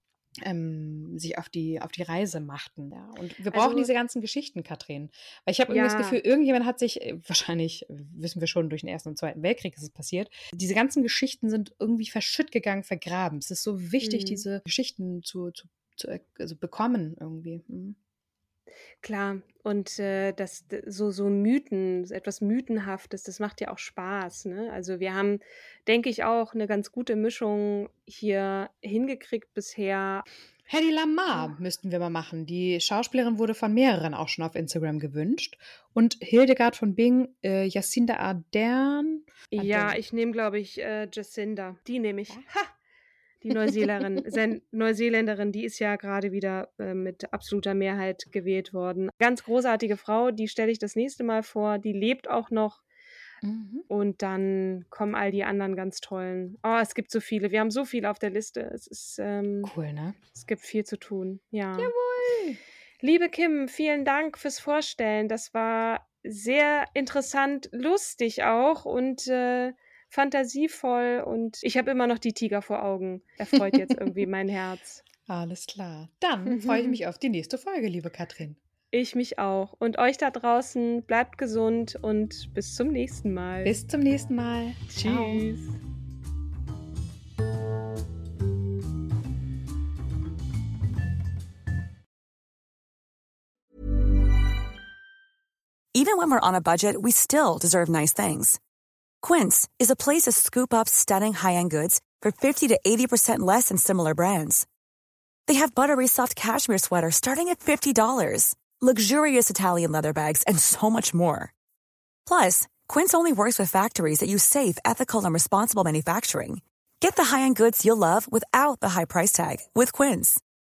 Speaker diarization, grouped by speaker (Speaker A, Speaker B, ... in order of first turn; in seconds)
Speaker A: 0.4-18.0, 30.7-40.0, 43.7-44.1, 53.4-53.9, 59.6-60.2, 61.8-62.6, 73.6-74.0, 75.2-78.6, 83.6-85.5
Speaker B: 3.5-3.9, 5.7-6.2, 14.0-14.4, 19.0-30.2, 39.5-42.7, 43.4-52.8, 53.9-59.7, 60.3-61.9, 63.0-75.0, 76.5-77.0, 78.9-83.8, 84.9-85.7
Speaker C: 95.9-98.6, 99.2-104.7, 105.5-111.5, 112.2-120.4